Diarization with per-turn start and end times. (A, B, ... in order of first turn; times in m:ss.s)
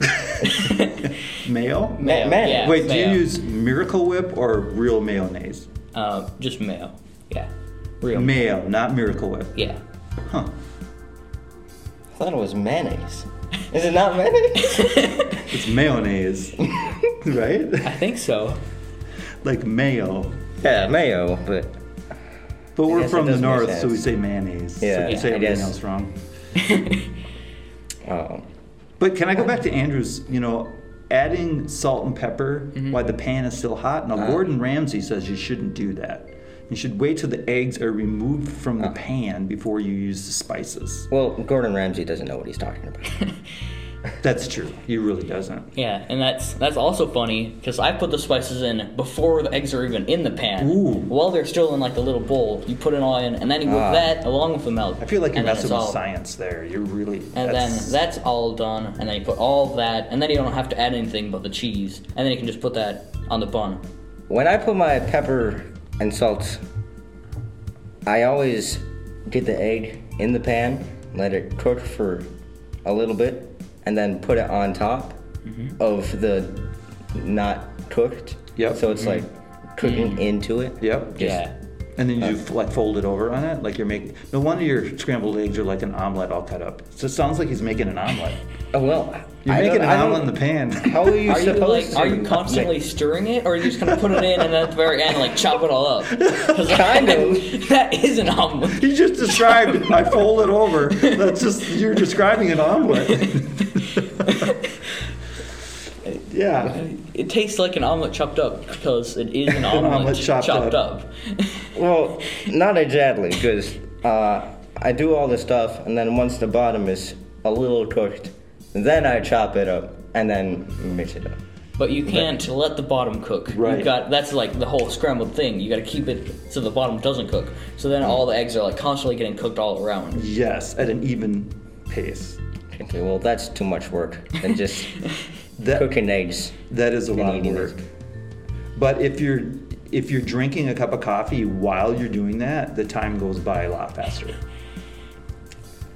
0:00.4-0:01.1 A
0:01.4-0:05.7 B
0:02.0-0:03.3 A
0:02.0-0:02.8 C
0:05.9-0:07.5 A
0:08.0-0:08.3 A
0:08.1-0:09.6 B
0:10.3-0:10.5 B
0:12.2-0:15.1 C
0:14.6-0:15.4 A
0:15.5-0:17.9 B
0:17.8-0:18.6 A
0:19.4-0:20.5 B
0:20.6-0:21.7 C
0:22.8-0:26.2 B
0:22.9-0:24.1 C
0:24.8-0:25.8 C
0:26.6-0:27.1 A
0:28.1-0:28.5 C
0:29.0-0:41.1 B
0:41.1-0:43.1 C
0:44.2-0:45.7 B
0:45.7-0:56.0 A
0:50.6-0:51.1 B
0:53.6-0:54.1 C
0:55.0-0:58.0 B
0:57.4-1:03.8 A
1:04.3-1:06.6 C
1:08.1-1:12.3 C
1:12.8-1:15.2 C
1:15.4-1:15.8 A
1:15.8-1:21.4 C
1:18.6-1:19.0 B
1:19.8-1:20.2 A
1:20.8-1:21.4 B
1:21.2-1:21.6 A
1:22.0-1:28.4 B
1:28.7-1:32.8 C
1:29.4-1:31.6 B
1:31.2-1:40.2 A
1:36.6-1:37.5 C
1:38.8-1:44.3 B
1:40.9-1:41.2 A
1:43.1-1:44.8 A
1:46.3-1:46.8 B
1:46.6-1:51.7 A
1:49.5-1:50.8 B
1:51.8-2:01.4 C
2:01.8-2:10.3 A
2:03.5-2:03.9 B
2:10.2-2:12.4 B
2:12.7-2:14.9 C
2:15.6-2:15.9 B
2:15.7-2:17.8 C
2:16.7-2:17.8 B
2:18.8-2:24.4 B